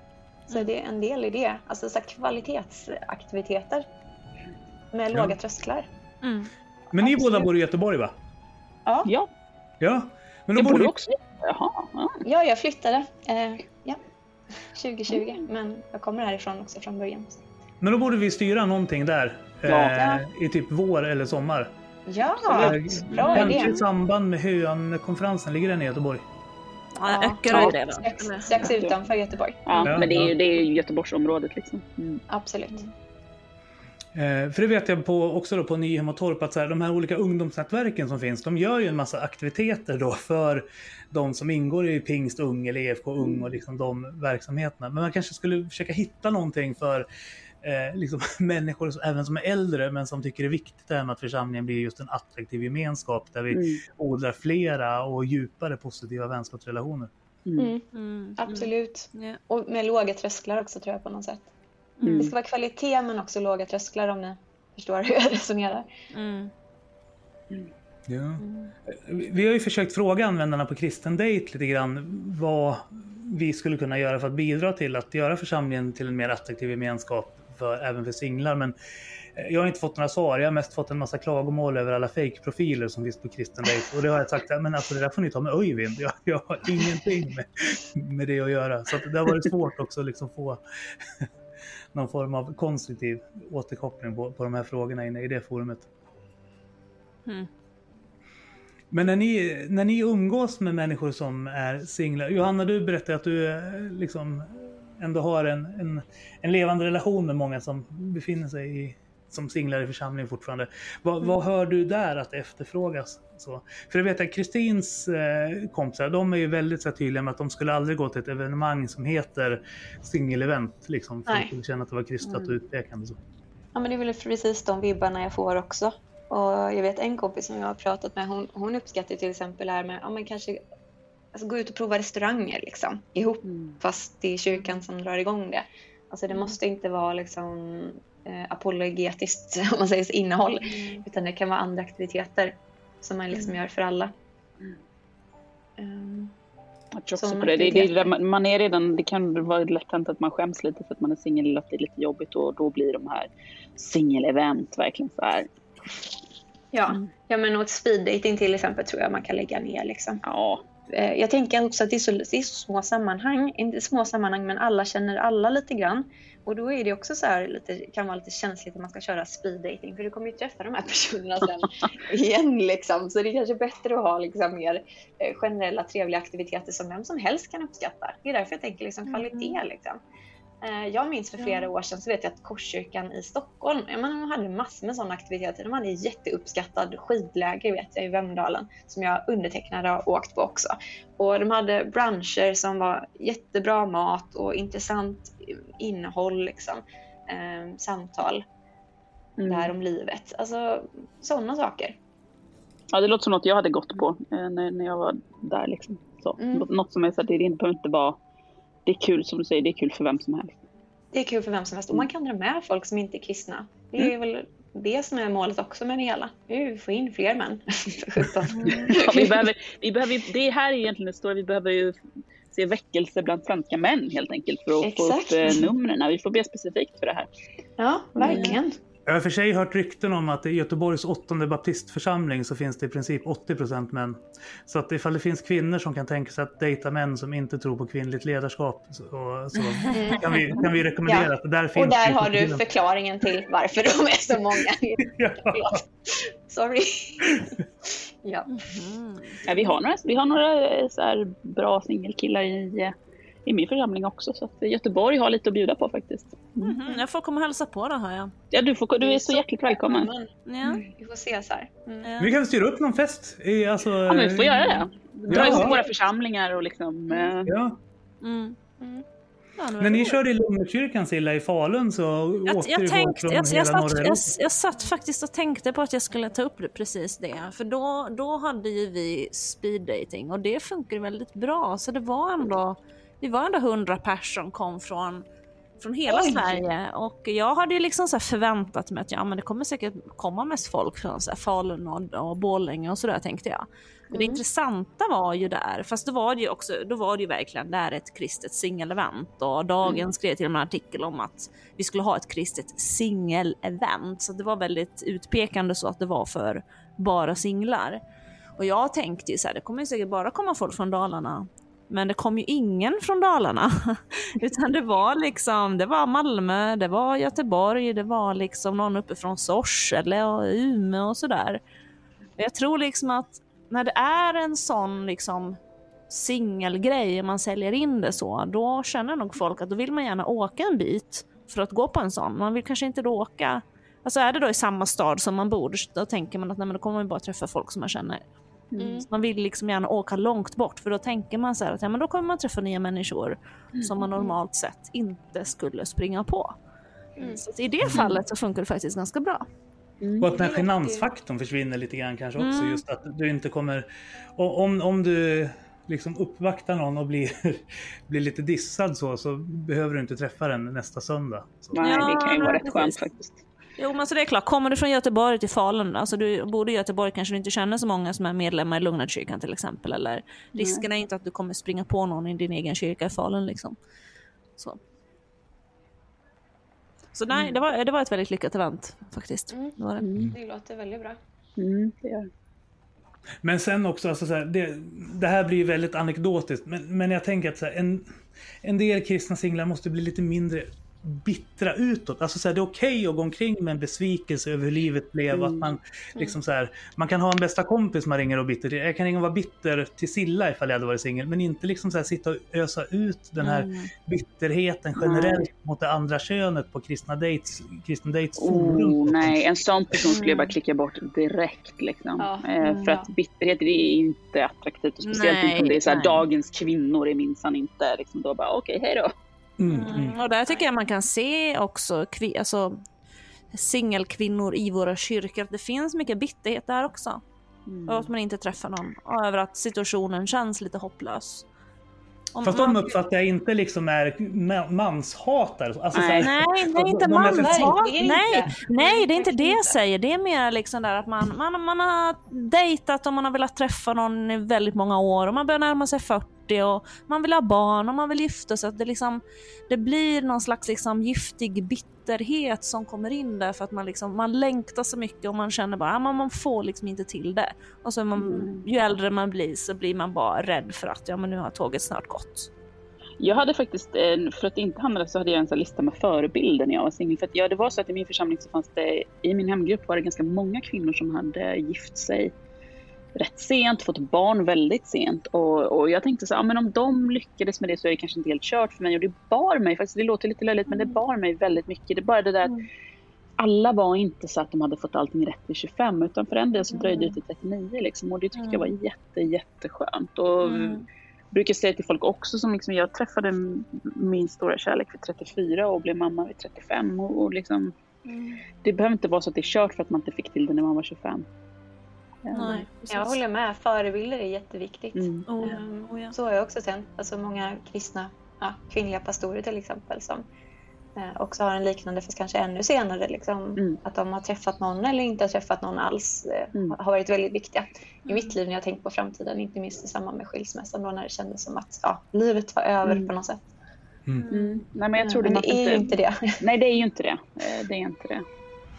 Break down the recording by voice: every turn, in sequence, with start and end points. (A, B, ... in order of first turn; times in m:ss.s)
0:00.5-0:03.8 A
0:04.9-0:05.9 A
0:06.2-0:06.5 B
0:06.9-0:08.1 C
0:06.9-0:07.5 A
0:09.8-0:11.1 C
0:10.6-0:12.2 D
0:12.2-0:14.0 A
0:14.7-0:17.4 A
0:17.8-0:21.7 C
0:19.7-0:20.0 D
0:20.0-0:20.2 A
0:22.1-0:23.8 A
0:22.4-0:23.8 D
0:22.5-0:26.2 C
0:27.0-0:28.7 B
0:27.0-0:29.9 A
0:27.5-0:27.8 D
0:28.6-0:28.9 D
0:29.6-0:32.2 D
0:29.8-0:30.3 C
0:32.3-0:32.9 A
0:34.1-0:47.0 C
0:47.6-0:57.1 C
0:53.5-0:53.8 D
0:57.4-0:57.7 D
0:57.6-0:57.8 A
0:57.9-0:59.4 B
0:58.4-1:01.5 A
1:02.0-1:02.3 B
1:02.0-1:02.3 D
1:02.2-1:05.9 A
1:06.1-1:06.5 B
1:08.1-1:18.7 C
1:08.4-1:08.7 A
1:19.4-1:31.2 C
1:31.9-1:35.9 C
1:38.9-2:03.2 C
2:01.3-2:01.5 A
2:02.2-2:02.6 D
2:03.7-2:10.6 A
2:11.3-2:24.1 A
2:13.4-2:13.8 D
2:25.8-2:26.3 A
2:26.9-2:35.5 D
2:27.1-2:28.1 A
2:36.7-2:40.2 A
2:40.2-2:40.6 D
2:40.9-3:00.0 A
2:59.1-2:59.6 B
3:00.6-3:18.4 A
3:19.4-3:19.7 D
3:19.4-3:22.0 A
3:22.9-3:28.2 D
3:26.4-3:26.6 A
3:28.8-3:30.6 D
3:31.1-3:39.5 A
3:38.6-3:38.8 B
3:38.7-3:42.0 D
3:42.5-3:47.3 D
3:44.8-3:45.7 A
3:47.8-3:48.8 A
3:48.2-3:48.6 D
3:48.2-3:48.6 B
3:49.1-4:02.6 C
3:59.9-4:00.2 B
3:59.9-4:08.7 A
4:05.0-4:05.8 C
4:08.5-4:09.4 B
4:09.4-4:12.9 D
4:13.4-4:16.7 D
4:16.6-4:18.3 B
4:18.5-4:20.1 D
4:19.0-4:22.1 A
4:20.5-4:20.8 B
4:22.0-4:22.3 B
4:22.2-4:24.6 C
4:24.1-4:27.6 D
4:25.3-4:25.8 C
4:25.3-4:25.7 A
4:25.4-4:25.7 B
4:27.4-4:27.8 C
4:28.2-4:28.6 B
4:28.8-4:29.0 A
4:29.6-4:30.2 B
4:29.8-4:34.3 C
4:32.4-4:45.2 B
4:45.8-5:08.0 B
4:46.1-4:46.6 A
4:54.1-4:54.4 A
5:08.6-5:21.6 B
5:22.4-5:25.6 B
5:26.1-5:38.2 B
5:38.7-5:39.0 D
5:38.8-5:39.0 A
5:39.0-5:46.5 B
5:47.2-5:47.4 A
5:47.2-5:49.4 B
5:50.0-5:50.3 D
5:50.2-6:01.8 C
5:50.2-5:51.1 A
5:52.4-5:52.8 B
6:01.7-6:03.4 D
6:01.8-6:03.0 B
6:03.8-6:13.8 B
6:10.6-6:10.8 D
6:17.1-6:20.1 B
6:20.0-6:20.3 D
6:20.3-6:21.2 A
6:21.6-6:22.3 D
6:23.4-6:49.4 C
6:35.3-6:35.7 D
6:43.4-6:43.9 B
6:45.0-6:45.3 D
6:48.4-6:59.1 D
6:52.2-6:53.0 A
6:52.6-6:52.9 B
6:55.0-6:56.2 B
6:59.6-7:00.2 C
6:59.7-7:02.8 B
6:59.9-7:00.6 A
7:03.5-7:07.2 B
7:07.7-7:08.1 D
7:07.9-7:11.4 B
7:12.3-7:12.9 B
7:12.4-7:17.9 C
7:15.9-7:16.3 D
7:16.2-7:42.5 B
7:17.1-7:19.8 A
7:38.2-7:38.6 D
7:43.2-7:52.3 D
7:53.1-8:02.6 D
8:03.4-8:10.8 D
8:06.8-8:07.0 A
8:08.4-8:08.7 B
8:10.4-8:10.8 B
8:11.3-8:17.7 D
8:18.1-8:18.4 B
8:18.6-8:21.2 D
8:22.2-8:22.6 D
8:22.3-8:23.2 B
8:22.9-8:30.2 A
8:24.9-8:25.2 D
8:25.3-8:26.2 B
8:31.0-8:43.4 A
8:42.8-8:43.1 D
8:44.2-8:44.6 B
8:44.3-8:48.2 D
8:45.0-8:46.4 A